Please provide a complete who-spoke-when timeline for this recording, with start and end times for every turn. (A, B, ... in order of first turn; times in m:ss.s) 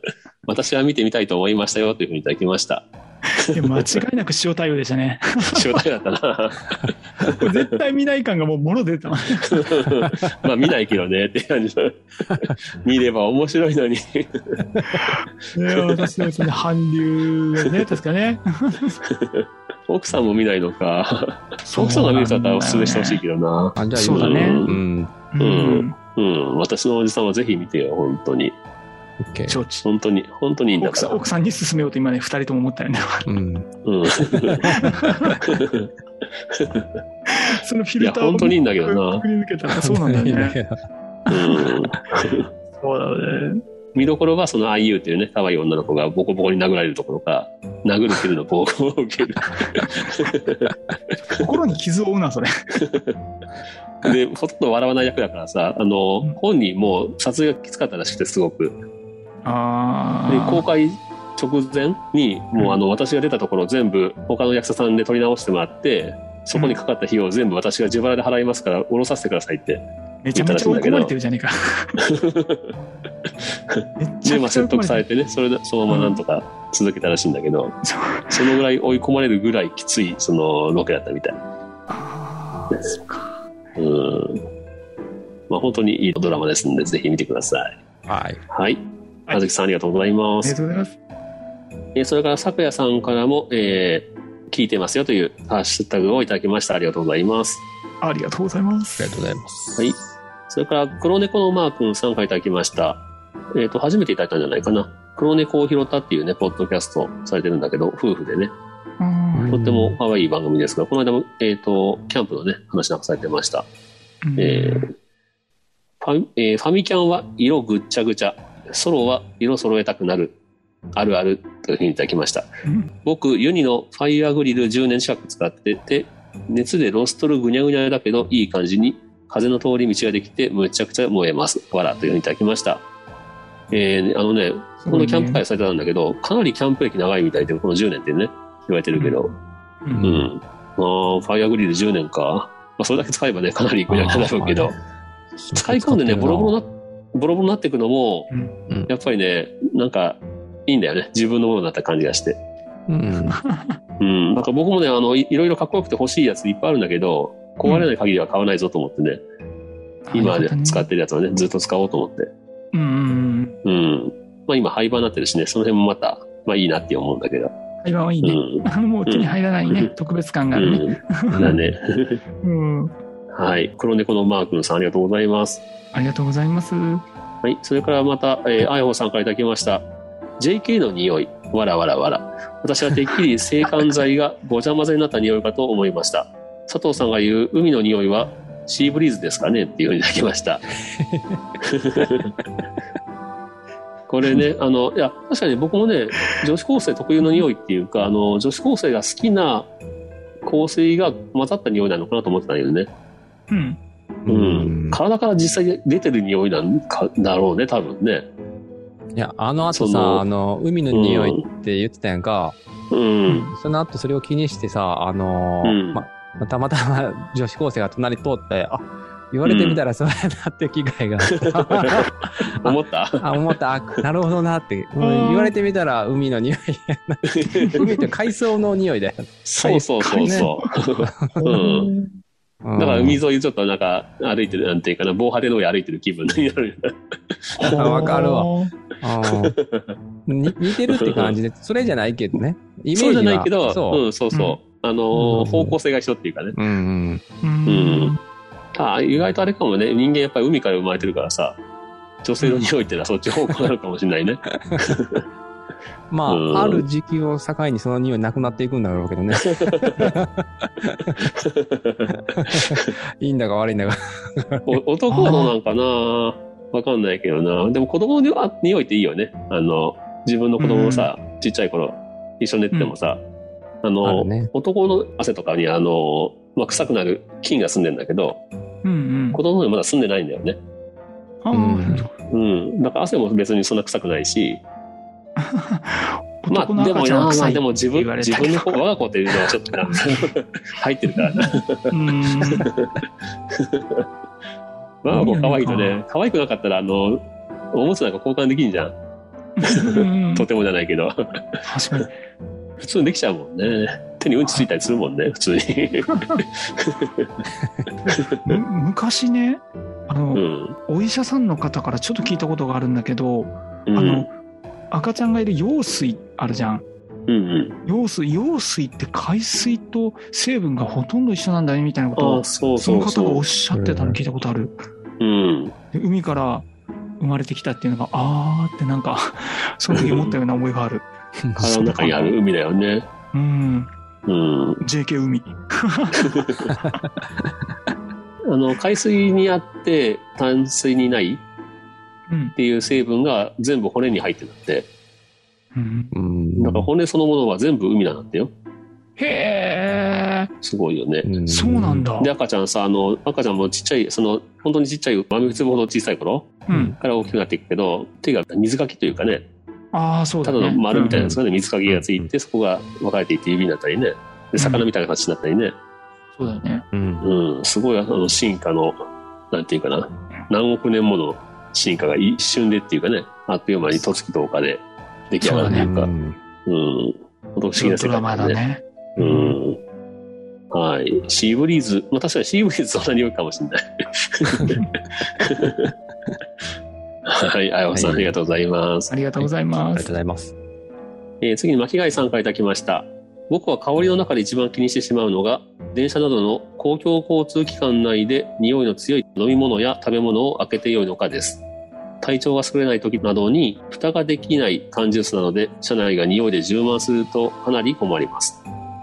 0:00.5-0:03.9 A
0:03.5-0:05.8 B
0:05.4-0:07.5 A
0:07.3-0:09.7 B
0:09.5-0:14.6 A
0:14.8-0:19.0 B
0:19.0-0:24.8 A
0:21.7-0:23.2 B
0:23.8-0:25.1 C
0:23.9-0:24.6 B
0:25.3-0:26.0 B
0:25.4-0:28.6 A
0:29.2-0:29.6 C
0:29.5-0:29.8 B
0:29.8-0:31.2 A
0:30.8-0:33.2 B
0:33.3-0:33.7 C
0:33.8-0:34.7 A
0:34.3-0:35.4 C
0:34.7-0:35.4 B
0:35.4-0:35.9 A
0:36.5-0:36.9 A
0:37.3-0:40.6 B
0:38.0-0:39.2 A
0:39.8-0:40.8 C
0:41.3-0:41.6 B
0:41.3-0:42.5 A
0:42.7-0:43.6 B
0:43.9-0:50.7 A
0:51.3-0:52.5 B
0:52.8-0:53.2 A
0:54.0-0:58.8 A
0:59.4-1:00.6 B
1:00.3-1:11.1 A
1:10.2-1:12.0 B
1:12.0-1:12.7 A
1:13.7-1:17.8 A
1:14.0-1:15.0 B
1:15.9-1:16.2 B
1:17.8-1:18.5 B
1:18.3-1:21.4 A
1:21.9-1:23.3 B
1:23.8-1:24.4 A
1:25.5-1:27.8 A
1:28.1-1:28.4 C
1:28.5-1:30.6 A
1:30.4-1:31.0 B
1:32.0-1:37.6 A
1:38.0-1:39.0 B
1:39.0-1:39.8 C
1:40.5-1:43.0 A
1:43.5-1:48.5 A
1:49.0-1:49.6 B
1:49.3-1:50.0 C
1:49.5-1:53.7 A
1:54.2-1:54.9 B
1:54.4-1:54.9 A
1:56.0-2:00.4 A
2:01.0-2:02.5 A
2:02.6-2:02.9 B
2:03.0-2:12.8 A
2:13.7-2:19.3 A
2:14.8-2:15.4 B
2:19.0-2:19.3 B
2:19.9-2:20.3 C
2:20.0-2:24.8 A
2:23.9-2:24.8 C
2:25.4-2:26.6 C
2:25.5-2:28.3 A
2:28.9-2:32.4 A
2:32.9-2:33.4 C
2:33.1-2:33.8 B
2:34.0-2:39.2 A
2:40.1-2:40.9 B
2:40.1-2:42.3 A
2:42.7-2:43.6 B
2:43.6-2:47.5 A
2:47.8-2:51.6 B
2:48.2-2:49.9 A
2:50.5-2:52.2 A
2:51.3-2:51.6 C
2:52.4-2:52.9 B
2:53.3-2:55.6 A
2:55.9-2:57.0 B
2:57.4-2:59.9 A
3:00.4-3:10.6 A
3:10.8-3:11.4 C
3:11.6-3:12.3 A
3:14.1-3:19.7 A
3:20.4-3:22.9 A
3:23.5-3:23.8 B
3:24.3-3:25.0 C
3:24.3-3:28.3 A
3:29.2-3:32.6 C
3:29.7-3:30.2 A
3:30.9-3:31.5 A
3:32.9-3:33.5 A
3:33.3-3:33.5 B
3:33.5-3:42.1 C
3:35.6-3:36.0 A
3:39.4-3:39.8 A
3:41.4-3:43.4 A
3:42.6-3:51.5 C
3:45.0-3:45.5 B
3:47.3-3:47.8 A
3:49.4-3:51.9 A
3:50.0-3:50.7 B
3:51.4-3:52.1 B
3:52.6-3:53.2 C
3:52.8-3:57.9 A
3:57.6-3:58.7 B
3:57.7-3:59.6 C
3:59.2-4:00.0 A
4:00.3-4:04.0 C
4:00.9-4:01.4 A
4:02.9-4:06.6 A
4:04.3-4:04.6 B
4:05.2-4:05.8 C
4:06.6-4:07.2 C
4:07.4-4:08.2 B
4:07.7-4:08.1 A
4:08.8-4:11.6 A
4:12.2-4:15.2 A
4:16.1-4:21.2 C
4:16.3-4:16.8 A
4:19.5-4:20.1 A
4:21.2-4:22.9 A
4:22.3-4:24.7 C
4:24.7-4:33.2 A
4:25.1-4:25.6 B
4:30.6-4:31.1 B
4:33.8-4:38.4 A
4:34.0-4:34.5 C
4:38.8-4:39.4 B
4:39.3-4:40.6 A
4:41.4-4:42.1 B
4:41.5-4:42.1 C
4:42.3-4:44.6 A
4:45.4-4:48.8 B
4:46.5-4:53.0 A
4:49.8-4:50.2 B
4:51.2-4:52.7 B
4:53.5-4:54.0 A
4:55.0-4:58.9 A
4:55.1-4:56.0 B
4:59.6-5:00.5 B
4:59.6-5:02.0 A
5:01.7-5:02.2 B
5:02.8-5:07.4 A
5:06.1-5:06.4 B
5:08.1-5:08.6 A
5:08.4-5:14.3 B
5:10.3-5:10.8 A
5:13.9-5:14.3 A
5:14.9-5:16.8 B
5:17.3-5:17.8 A
5:17.9-5:24.8 B
5:22.2-5:23.4 A
5:23.7-5:24.2 C
5:25.2-5:25.7 A
5:25.9-5:26.7 B
5:27.2-5:31.1 B
5:29.9-5:30.4 A
5:31.4-5:32.1 C
5:31.6-5:33.1 A
5:31.7-5:32.3 B
5:33.3-5:33.9 B
5:34.3-5:34.8 A
5:34.8-5:37.0 B
5:36.2-5:36.7 A
5:38.5-5:41.4 A
5:42.3-5:42.6 B
5:42.6-5:44.9 A
5:45.8-5:46.1 B
5:46.1-5:46.9 C
5:46.6-5:48.5 A
5:49.2-5:50.5 B
5:50.6-5:51.3 A
5:51.2-5:52.1 C
5:51.5-5:52.3 B
5:52.2-5:59.5 A
5:56.7-5:57.0 B
5:56.7-5:57.0 C
5:59.9-6:01.3 B
6:00.4-6:05.8 A
6:01.1-6:02.3 C
6:04.6-6:04.9 B
6:06.4-6:06.8 B
6:06.9-6:07.3 C
6:07.2-6:16.1 A
6:15.4-6:15.9 B
6:15.5-6:16.4 C
6:16.7-6:18.6 A
6:17.8-6:19.6 B
6:19.2-6:19.8 A
6:20.7-6:25.9 A
6:27.3-6:29.1 A
6:27.9-6:28.4 C
6:29.1-6:30.1 B
6:29.4-6:30.5 C
6:31.4-6:41.6 A
6:42.2-6:48.6 A